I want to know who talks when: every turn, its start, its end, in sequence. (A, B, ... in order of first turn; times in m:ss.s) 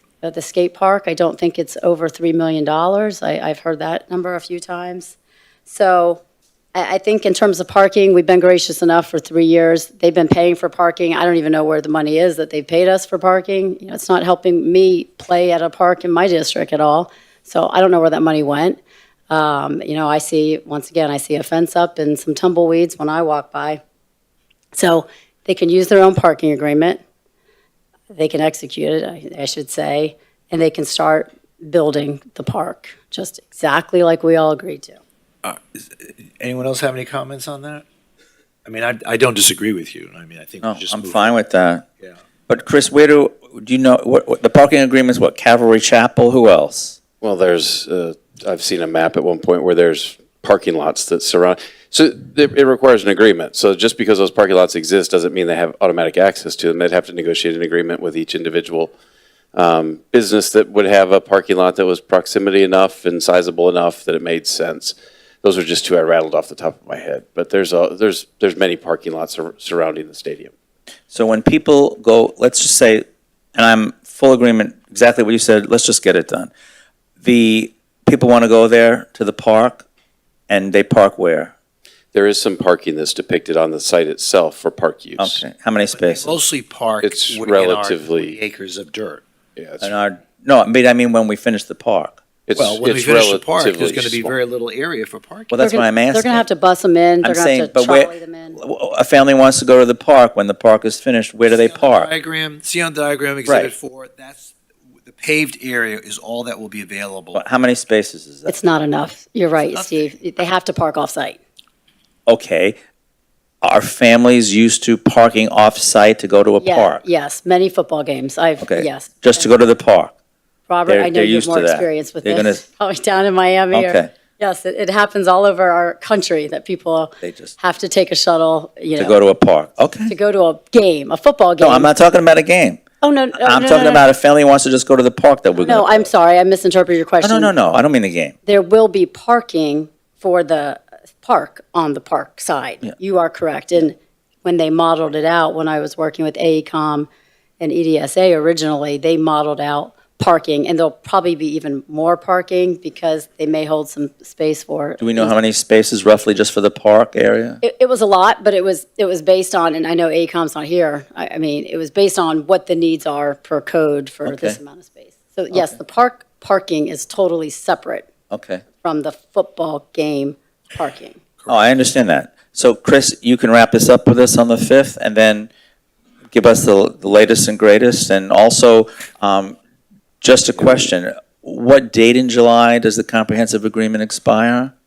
0:00.2-0:06.2 A
0:06.7-0:23.8 A
0:24.7-0:27.0 A
0:28.1-0:35.0 A
0:35.4-0:37.8 B
0:38.6-0:41.3 B
0:40.6-0:41.8 C
0:42.5-0:47.0 C
0:47.2-0:58.9 D
0:59.5-1:10.5 D
1:11.1-1:13.0 C
1:13.5-1:16.5 C
1:17.2-1:19.8 C
1:20.5-1:21.5 C
1:22.1-1:25.4 D
1:25.2-1:26.4 C
1:26.0-1:29.2 B
1:27.0-1:28.4 D
1:29.6-1:29.9 D
1:29.8-1:32.2 C
1:32.5-1:34.4 D
1:32.6-1:35.5 B
1:35.5-1:36.4 C
1:35.6-1:38.6 A
1:37.2-1:42.1 C
1:41.4-1:44.5 B
1:43.4-1:43.7 C
1:45.1-1:47.4 B
1:47.3-1:48.6 C
1:48.5-1:51.4 A
1:49.6-1:50.1 B
1:52.3-1:52.8 C
1:53.6-1:57.0 C
1:56.6-1:59.5 A
1:58.6-2:00.1 C
2:00.7-2:09.2 A
2:00.9-2:02.6 C
2:03.7-2:04.1 C
2:07.2-2:07.5 C
2:09.0-2:10.1 C
2:10.1-2:11.9 A
2:11.6-2:12.8 C
2:13.0-2:14.0 A
2:13.4-2:16.1 C
2:15.6-2:17.5 A
2:17.2-2:18.3 C
2:18.4-2:27.1 A
2:27.6-2:35.3 A
2:35.0-2:37.6 C
2:37.6-2:48.1 A
2:44.2-2:44.6 C
2:45.5-2:45.8 C
2:48.3-2:48.6 C
2:48.8-2:51.2 A
2:51.5-2:55.5 C
2:56.3-2:59.6 C
3:00.2-3:04.7 C